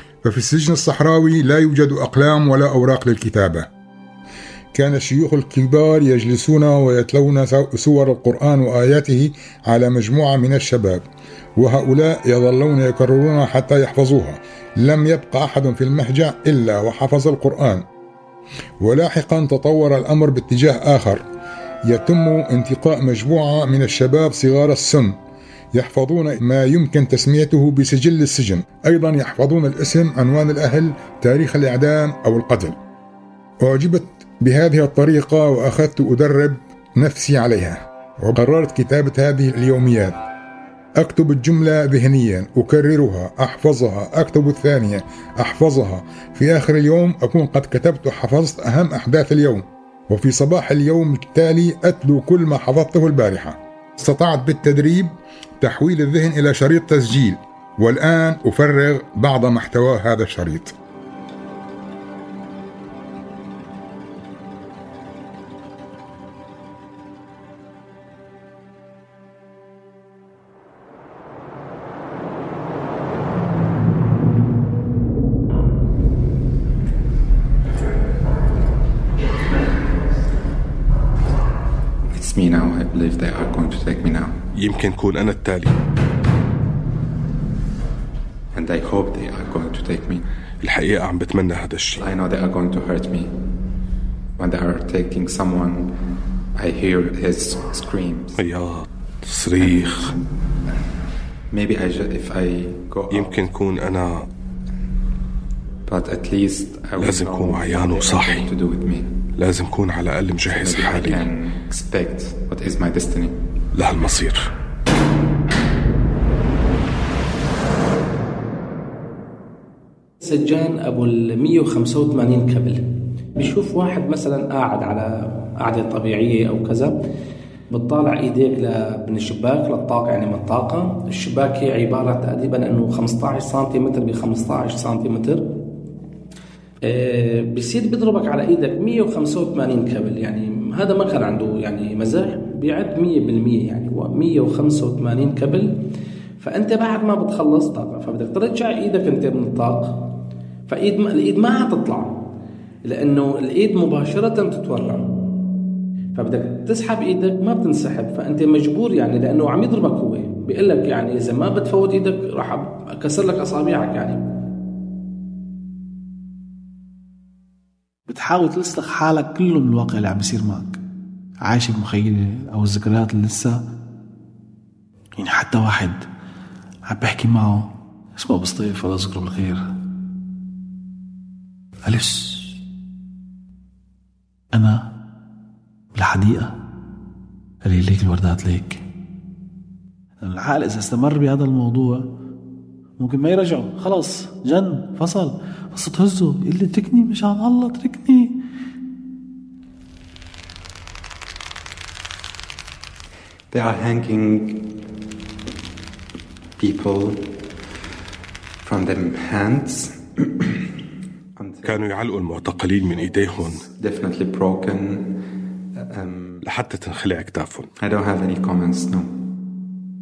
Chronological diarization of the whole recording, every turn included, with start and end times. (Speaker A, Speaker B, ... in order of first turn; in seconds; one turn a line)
Speaker A: 0.2-3.7
Speaker A: 4.7-11.0
Speaker A: 11.6-17.8
Speaker A: 18.8-21.2
Speaker A: 21.9-25.2
Speaker A: 25.7-32.8
Speaker A: 33.6-40.1
Speaker A: 41.0-60.7
Speaker B: 82.1-84.4
Speaker C: 84.5-85.7
Speaker B: 88.5-90.2
Speaker C: 90.6-92.0
Speaker B: 91.9-93.3
Speaker B: 94.4-95.9
Speaker B: 96.5-98.4
Speaker C: 98.4-100.1
Speaker B: 99.6-100.1
Speaker B: 101.5-103.5
Speaker C: 103.1-104.3
Speaker B: 105.9-109.1
Speaker C: 107.0-108.5
Speaker C: 109.4-111.3
Speaker B: 110.5-113.4
Speaker C: 113.7-114.5
Speaker D: 120.2-127.0
Speaker D: 127.7-135.5
Speaker D: 136.8-145.7
Speaker D: 146.4-150.0
Speaker D: 150.7-152.2
Speaker D: 152.8-155.1
Speaker D: 156.2-164.2
Speaker E: 168.1-170.8
Speaker E: 171.4-173.5
Speaker E: 175.2-176.1
Speaker E: 176.9-179.6
Speaker E: 181.8-182.6
Speaker E: 184.5-184.9
Speaker E: 185.9-186.5
Speaker E: 187.6-188.8
Speaker E: 190.2-192.1
Speaker E: 193.0-198.4
Speaker B: 203.5-204.7
Speaker B: 206.6-207.3
Speaker B: 208.6-210.7
Speaker B: 211.3-215.2
Speaker C: 211.6-213.7
Speaker B: 215.8-216.4
Speaker C: 216.4-217.7
Speaker B: 217.8-219.2